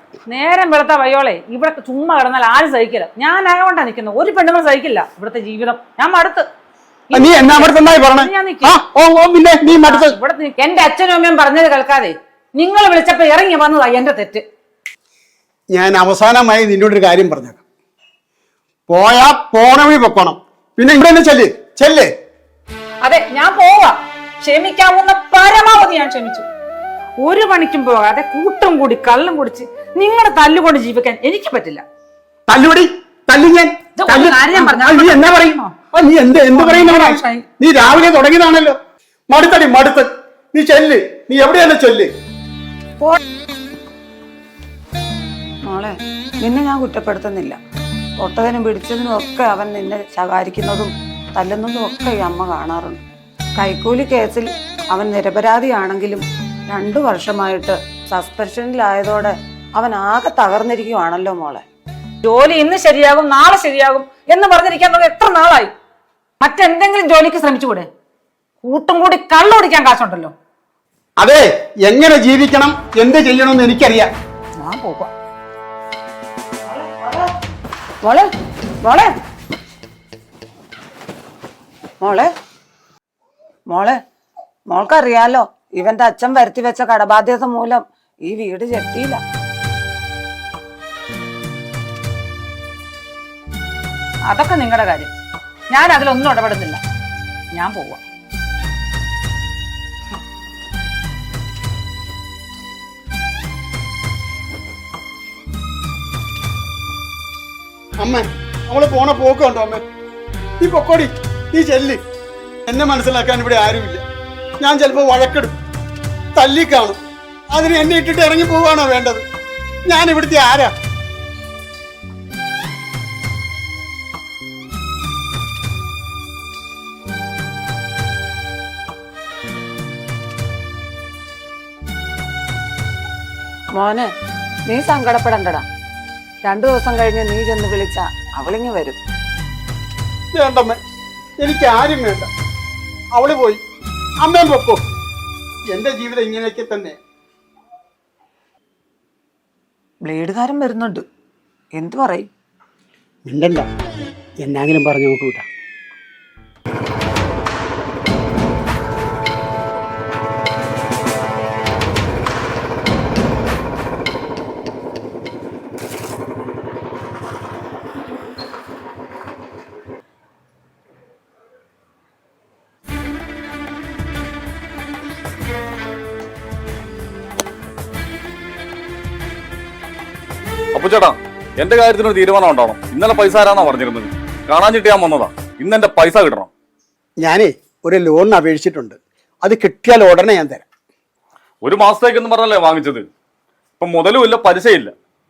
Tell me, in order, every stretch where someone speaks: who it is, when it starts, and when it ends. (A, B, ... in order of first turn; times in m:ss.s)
0:00.3-0:06.5 A
0:07.1-0:08.8 A
0:07.1-0:10.2 B
0:09.7-0:14.4 A
0:15.7-0:17.6 B
0:18.9-0:22.1 B
0:23.0-0:26.5 A
0:27.2-0:31.8 A
0:32.5-0:38.8 B
0:34.0-0:35.8 A
0:36.5-0:37.5 A
0:39.3-0:42.1 B
0:45.6-0:47.6 C
0:48.2-0:53.0 C
0:53.6-1:01.6 C
1:02.2-1:05.7 A
1:06.4-1:07.9 A
1:08.6-1:10.3 A
1:11.2-1:14.1 B
1:14.6-1:15.1 C
1:16.7-1:17.2 C
1:18.0-1:18.3 C
1:18.8-1:19.1 C
1:22.0-1:22.3 C
1:23.7-1:24.0 C
1:24.7-1:29.2 C
1:34.3-1:35.1 A
1:35.7-1:36.8 A
1:37.5-1:38.0 A
1:48.0-1:49.8 B
1:50.6-1:52.0 B
1:52.7-1:54.0 B
1:54.6-1:55.6 B
1:56.4-1:57.0 B
1:57.5-1:59.2 B
1:59.9-2:00.7 B
2:13.8-2:14.1 C
2:14.7-2:15.6 C
2:16.4-2:19.0 C
2:20.3-2:20.8 B
2:21.4-2:22.3 B
2:23.1-2:23.6 B
2:24.2-2:24.8 B
2:25.7-2:27.0 B
2:30.0-2:31.0 C
2:31.8-2:32.3 C
2:33.3-2:33.7 B
2:34.4-2:35.4 B
3:00.7-3:06.5 D
3:07.2-3:10.6 B
3:11.6-3:13.1 D
3:13.8-3:14.9 D